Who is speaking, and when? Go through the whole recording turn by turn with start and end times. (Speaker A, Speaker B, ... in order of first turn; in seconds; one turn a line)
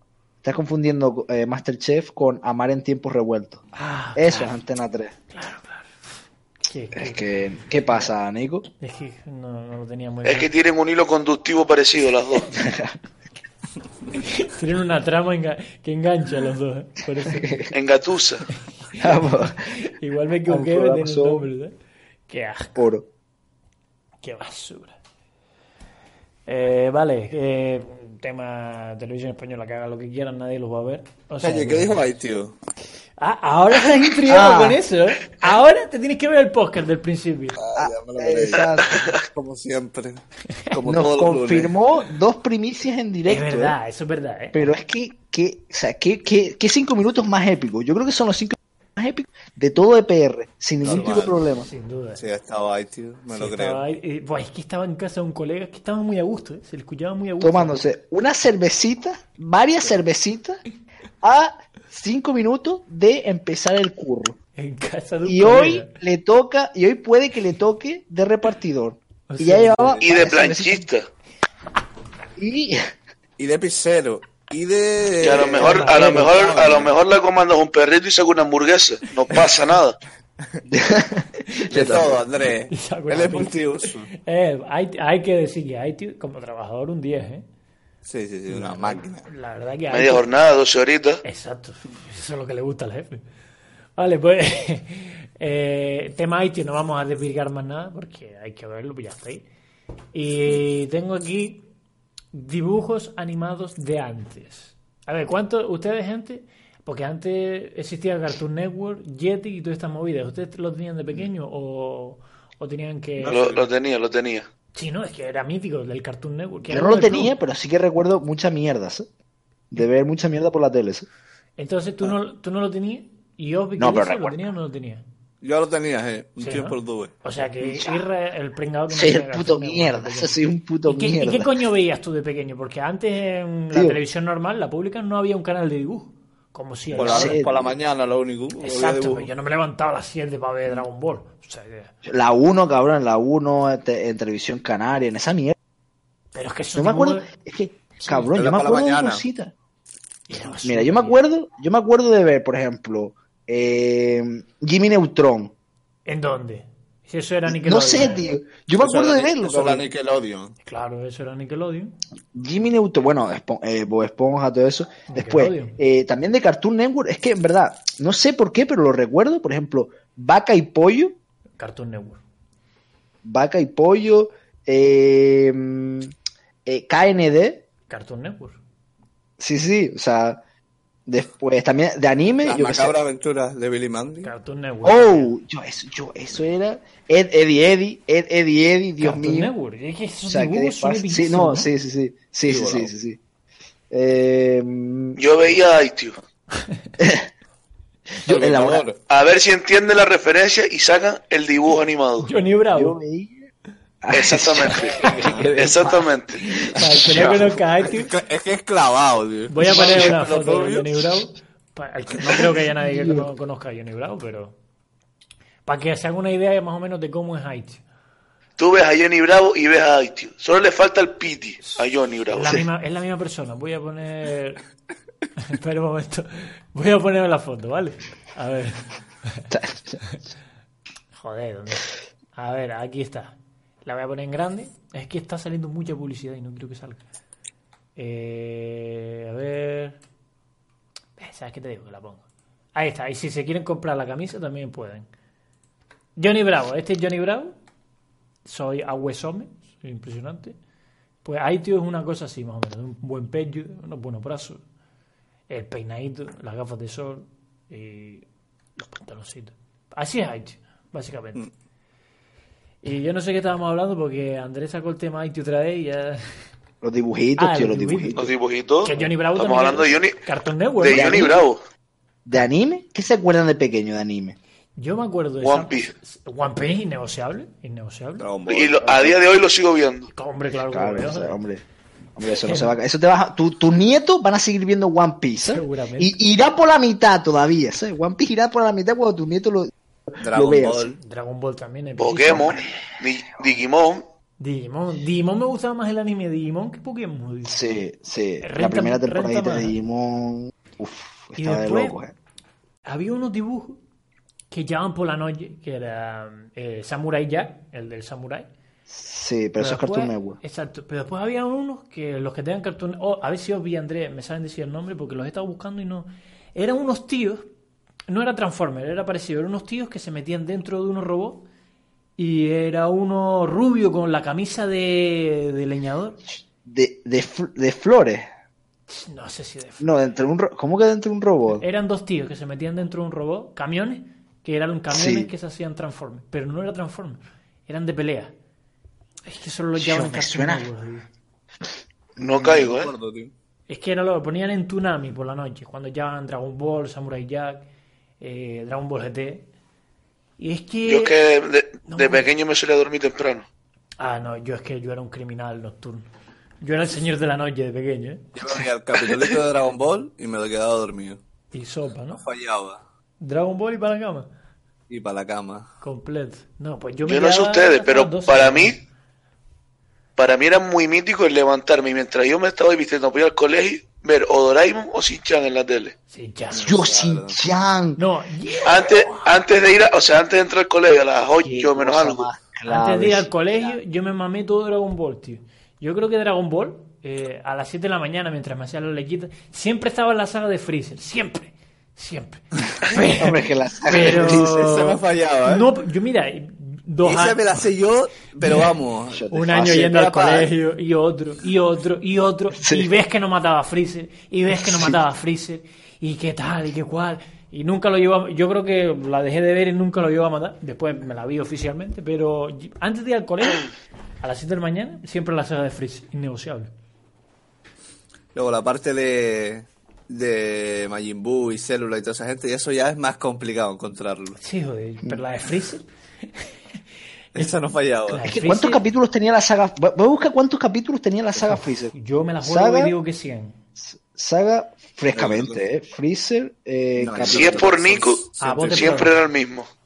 Speaker A: 0.4-3.6
Speaker B: 3.7-4.6
Speaker A: 4.2-5.1
Speaker B: 5.3-5.9
Speaker B: 6.7-7.2
Speaker A: 6.9-8.7
Speaker B: 8.8-10.5
Speaker C: 10.2-12.5
Speaker A: 12.5-13.0
Speaker B: 14.2-17.6
Speaker A: 17.2-17.7
Speaker C: 17.7-18.4
Speaker B: 19.0-21.7
Speaker A: 19.0-19.7
Speaker A: 20.5-21.5
Speaker B: 22.3-22.8
Speaker A: 22.8-23.1
Speaker B: 24.2-25.0
Speaker B: 26.5-32.0
Speaker D: 31.4-32.6
Speaker B: 33.2-37.6
Speaker A: 34.3-34.8
Speaker D: 37.6-41.8
Speaker A: 37.8-39.0
Speaker C: 38.8-39.2
Speaker A: 40.8-43.8
Speaker B: 43.3-44.7
Speaker A: 44.5-51.7
Speaker D: 50.8-51.4
Speaker B: 50.9-52.2
Speaker D: 52.2-53.8
Speaker B: 53.3-57.8
Speaker A: 57.4-60.6
Speaker A: 61.2-64.4
Speaker B: 64.6-66.0
Speaker A: 65.2-70.9
Speaker B: 69.3-70.0
Speaker C: 70.0-71.1
Speaker A: 72.4-72.8
Speaker D: 73.4-76.9
Speaker C: 75.2-80.0
Speaker B: 75.6-76.5
Speaker A: 80.7-82.2
Speaker D: 81.7-84.1
Speaker B: 82.7-87.4
Speaker D: 88.0-89.3
Speaker B: 88.5-90.3
Speaker C: 89.9-91.2
Speaker B: 91.2-93.2
Speaker B: 94.0-99.5
Speaker B: 100.1-101.6
Speaker B: 102.3-113.5
Speaker D: 113.2-113.7
Speaker C: 113.3-114.5
Speaker B: 114.7-117.3
Speaker A: 116.7-119.1
Speaker A: 119.7-121.1
Speaker B: 121.6-125.0
Speaker A: 123.8-124.4
Speaker D: 125.4-127.1
Speaker B: 126.4-137.4
Speaker A: 127.6-128.0
Speaker A: 128.9-131.6
Speaker A: 133.7-134.0
Speaker A: 136.9-137.8
Speaker D: 136.9-139.3
Speaker B: 138.6-141.9
Speaker A: 142.1-145.6
Speaker B: 146.3-147.3
Speaker A: 146.8-149.5
Speaker B: 148.0-148.3
Speaker D: 148.3-149.2
Speaker B: 150.3-151.2
Speaker A: 150.6-155.5
Speaker B: 156.1-158.3
Speaker A: 157.5-159.9
Speaker D: 158.8-160.6
Speaker B: 160.7-161.9
Speaker A: 162.3-171.2
Speaker B: 165.1-165.8
Speaker B: 171.6-172.2
Speaker A: 173.2-176.1
Speaker A: 176.7-177.7
Speaker B: 177.9-178.6
Speaker A: 179.4-180.4
Speaker A: 181.1-183.0
Speaker D: 182.4-184.3
Speaker B: 184.2-185.3
Speaker A: 184.8-189.5
Speaker B: 189.0-191.7
Speaker A: 190.3-193.2
Speaker D: 192.5-192.9
Speaker A: 193.9-195.2
Speaker C: 195.2-196.2
Speaker A: 197.0-197.3
Speaker A: 198.2-198.9
Speaker D: 198.3-199.0
Speaker C: 199.1-202.3
Speaker B: 202.2-203.0
Speaker A: 202.7-203.5
Speaker A: 204.0-207.6
Speaker C: 204.1-206.4
Speaker D: 205.1-205.5
Speaker B: 206.4-208.1
Speaker D: 207.0-211.0
Speaker B: 209.5-214.6
Speaker A: 212.8-213.3
Speaker B: 215.7-217.8
Speaker C: 218.6-222.6
Speaker B: 221.7-224.6
Speaker B: 225.4-229.4
Speaker A: 229.5-230.0
Speaker B: 231.2-237.0
Speaker B: 238.0-240.0
Speaker B: 241.2-242.2
Speaker B: 242.8-245.1
Speaker B: 246.2-247.6
Speaker B: 248.5-250.6
Speaker B: 251.2-254.6
Speaker B: 255.5-258.2
Speaker B: 258.8-261.5
Speaker B: 262.8-266.2
Speaker A: 266.8-268.3
Speaker B: 267.4-271.3
Speaker C: 268.1-270.2
Speaker C: 270.8-271.6
Speaker A: 270.9-271.4
Speaker A: 272.2-274.4
Speaker B: 274.8-278.3
Speaker C: 275.4-275.9
Speaker D: 278.2-279.2
Speaker C: 278.5-280.1
Speaker B: 280.1-281.4
Speaker A: 280.7-281.6
Speaker A: 282.2-290.9
Speaker B: 282.4-282.7
Speaker B: 285.5-286.2
Speaker D: 290.2-291.0
Speaker B: 291.0-292.6
Speaker C: 292.0-294.1
Speaker B: 294.4-297.6
Speaker A: 297.5-302.1
Speaker B: 298.4-299.7
Speaker B: 301.4-302.0
Speaker B: 302.9-303.8
Speaker B: 304.5-308.5
Speaker A: 308.9-310.4
Speaker B: 309.6-317.5
Speaker B: 318.1-321.5
Speaker B: 322.2-326.2
Speaker A: 326.6-328.3
Speaker B: 328.9-329.9
Speaker A: 329.8-331.6
Speaker B: 331.6-338.3
Speaker A: 334.9-335.3
Speaker B: 339.3-341.1
Speaker A: 339.8-340.7
Speaker A: 342.2-342.7
Speaker C: 342.2-342.9
Speaker D: 342.5-343.3
Speaker B: 343.7-347.6
Speaker B: 348.2-349.5
Speaker B: 350.4-351.1
Speaker C: 350.9-353.5
Speaker B: 351.9-352.3
Speaker B: 354.0-356.1
Speaker B: 356.6-358.3
Speaker D: 358.4-361.2
Speaker B: 361.5-362.2
Speaker D: 362.2-362.8
Speaker B: 363.2-364.3
Speaker D: 364.9-365.7
Speaker B: 365.8-368.8
Speaker C: 367.1-368.8
Speaker C: 370.2-375.9
Speaker B: 376.1-376.8
Speaker D: 376.5-377.4
Speaker A: 376.6-378.0
Speaker B: 378.0-379.4
Speaker C: 378.6-382.3
Speaker A: 381.4-383.8
Speaker B: 382.7-397.4
Speaker A: 393.2-394.7
Speaker D: 394.0-395.7
Speaker D: 397.0-400.5
Speaker A: 399.1-399.8
Speaker B: 399.3-413.7
Speaker A: 402.6-402.9
Speaker A: 404.5-405.0
Speaker B: 414.2-416.7
Speaker D: 418.3-424.4
Speaker B: 424.4-425.9
Speaker D: 427.4-428.3
Speaker B: 428.1-428.8
Speaker A: 428.2-432.9
Speaker B: 431.5-433.6
Speaker A: 433.8-437.7
Speaker D: 435.1-435.6
Speaker D: 437.0-439.1
Speaker C: 437.3-439.7
Speaker B: 438.4-439.2